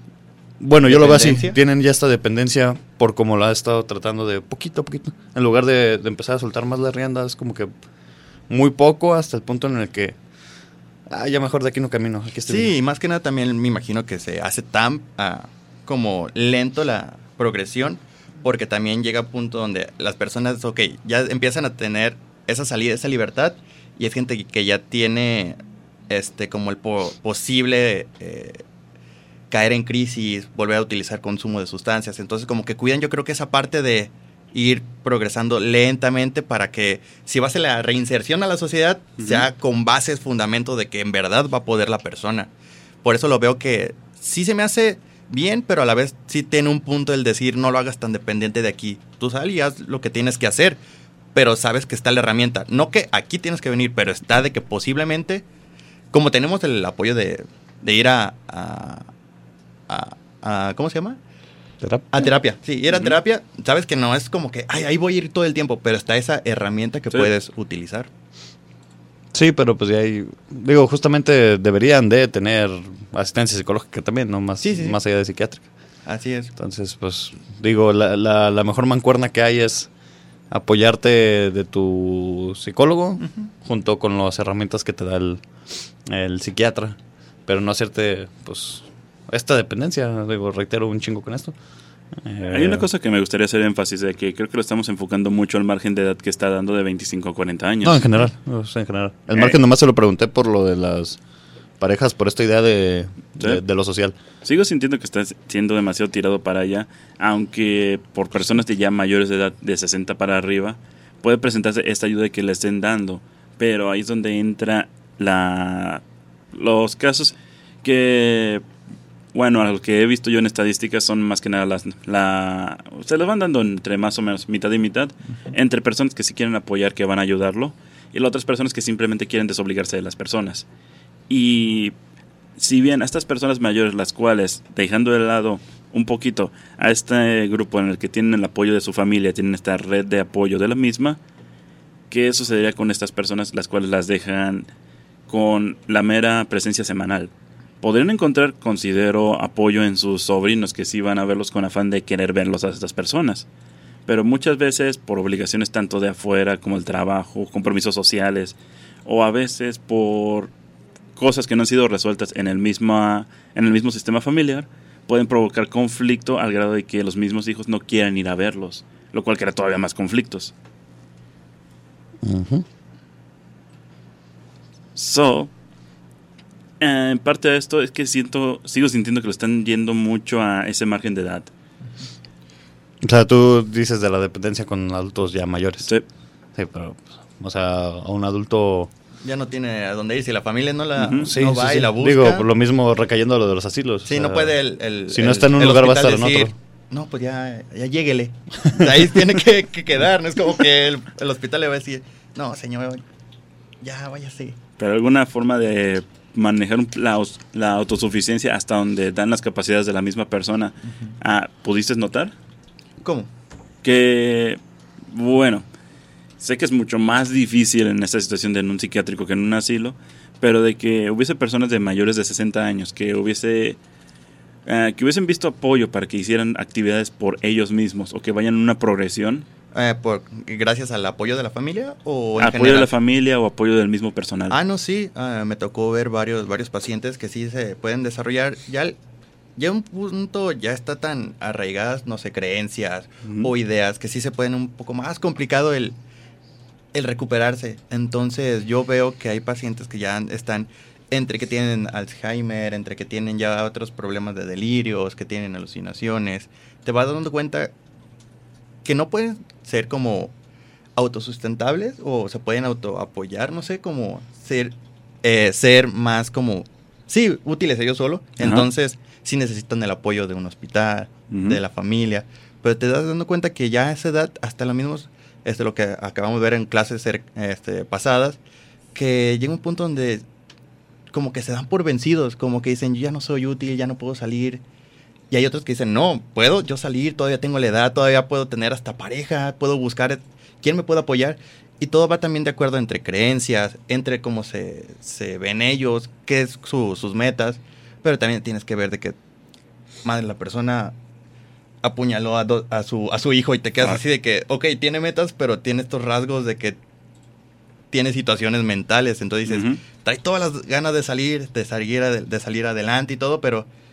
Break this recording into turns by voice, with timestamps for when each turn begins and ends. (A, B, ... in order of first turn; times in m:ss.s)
0:00.6-0:07.7 A
0:00.8-0:01.6 B
0:08.5-0:10.2 A
0:11.1-0:12.7 A
0:12.5-0:25.6 B
0:26.1-0:28.6 B
0:29.5-0:42.5 B
0:39.2-0:39.5 C
0:43.0-0:50.8 B
0:51.3-0:55.4 B
0:56.1-0:59.1 B
0:59.9-1:01.2 B
1:01.8-1:02.3 A
1:02.1-1:08.1 B
1:09.3-1:15.7 A
1:14.6-1:15.0 B
1:16.1-1:16.5 B
1:16.6-1:19.9 A
1:20.5-1:25.4 A
1:23.2-1:23.5 B
1:26.0-1:31.6 A
1:32.2-1:32.9 A
1:32.5-1:38.3 C
1:37.8-1:41.2 A
1:41.8-1:44.2 A
1:44.4-1:58.6 C
1:59.3-2:10.6 C
2:11.3-2:12.0 C
2:12.6-2:21.2 C
2:22.1-2:24.7 C
2:25.3-2:33.4 C
2:34.1-2:40.5 C
2:41.2-2:50.5 C
2:52.2-2:52.6 A
2:55.0-2:55.5 C
2:56.8-3:01.5 C
3:03.0-3:05.9 A
3:06.6-3:08.9 A
3:09.2-3:12.5 B
3:11.0-3:11.3 C
3:11.2-3:14.6 A
3:14.1-3:23.0 B
3:15.1-3:16.5 A
3:23.8-3:24.6 B
3:24.8-3:32.3 C
3:33.0-3:33.3 B
3:33.8-3:35.7 C
3:36.4-3:43.8 C
3:44.7-3:49.5 C
3:49.7-3:52.9 B
3:52.4-3:54.6 C
3:54.5-3:59.0 B
3:59.6-4:06.0 B
4:06.9-4:17.7 B
4:18.8-4:20.3 B
4:21.0-4:38.4 B
4:28.4-4:28.7 C
4:31.3-4:31.6 C
4:38.9-4:40.2 B
4:41.1-4:44.6 B
4:45.3-4:59.2 B
5:00.0-5:01.0 B
5:01.8-5:06.8 B
5:07.9-5:13.7 B
5:09.5-5:09.8 C